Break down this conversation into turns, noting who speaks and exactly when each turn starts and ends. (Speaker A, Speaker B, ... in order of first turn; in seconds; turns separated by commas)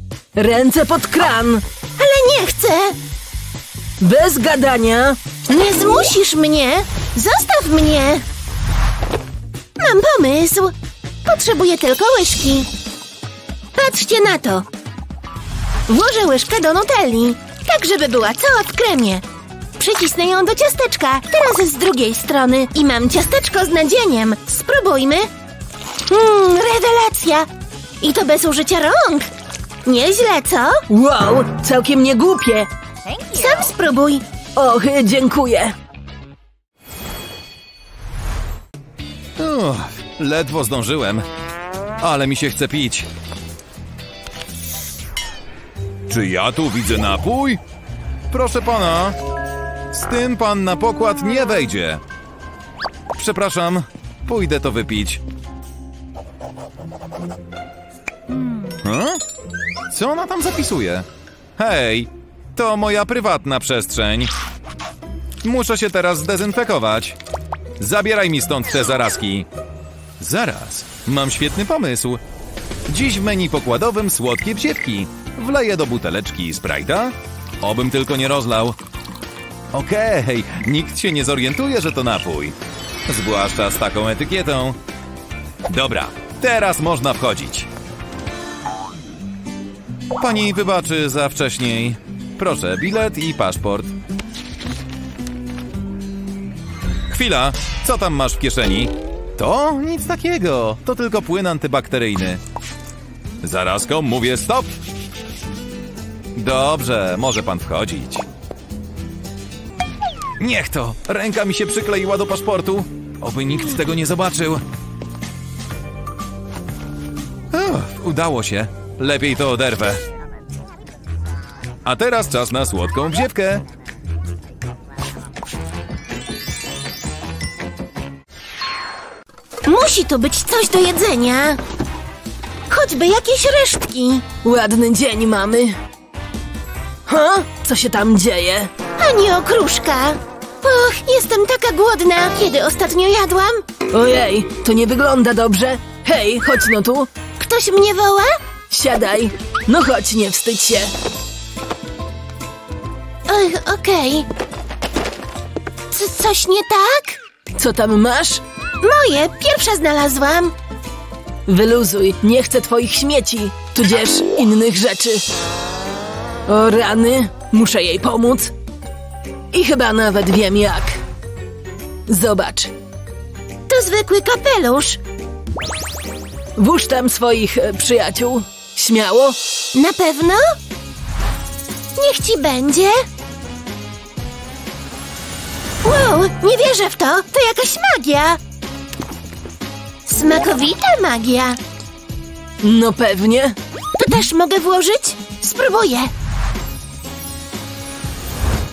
Speaker A: 0.3-1.6, Speaker B: 2.0-3.0, Speaker A: 4.0-5.2, Speaker B: 5.5-8.2, Speaker B: 9.8-10.7, Speaker B: 11.2-12.7, Speaker B: 13.8-14.7, Speaker B: 15.9-19.2, Speaker B: 19.8-25.3, Speaker B: 26.1-27.5, Speaker B: 28.0-29.3, Speaker B: 29.9-30.8, Speaker A: 30.9-32.7, Speaker B: 33.1-34.2, Speaker A: 34.5-35.8, Speaker C: 39.4-41.3, Speaker C: 42.0-43.1, Speaker C: 46.1-47.6, Speaker C: 48.3-49.2, Speaker C: 49.9-52.0, Speaker C: 53.2-55.2, Speaker C: 58.8-59.2, Speaker C: 59.9-61.1, Speaker C: 61.6-64.3, Speaker C: 65.4-67.2, Speaker C: 67.8-69.5, Speaker C: 70.2-72.2, Speaker C: 72.9-78.8, Speaker C: 79.7-84.8, Speaker C: 85.7-87.7, Speaker C: 90.2-93.9, Speaker C: 97.1-102.4, Speaker C: 103.4-104.7, Speaker C: 106.3-108.2, Speaker C: 110.4-114.6, Speaker C: 117.5-120.0, Speaker C: 121.8-123.6, Speaker B: 129.7-131.6, Speaker B: 132.7-134.3, Speaker A: 134.4-135.8, Speaker A: 137.1-138.7, Speaker B: 138.9-143.7, Speaker A: 143.9-147.1, Speaker B: 147.3-148.4, Speaker A: 148.7-150.9, Speaker B: 153.3-154.3, Speaker B: 155.9-157.2, Speaker A: 157.6-158.4, Speaker B: 158.8-160.6, Speaker A: 161.5-165.2, Speaker A: 166.5-168.5, Speaker A: 169.5-171.0, Speaker A: 172.1-172.7, Speaker B: 173.7-175.0, Speaker A: 176.6-179.4, Speaker B: 179.7-180.6, Speaker B: 182.0-183.0, Speaker B: 185.8-188.4, Speaker B: 190.1-191.6, Speaker A: 192.6-193.6, Speaker B: 194.0-196.1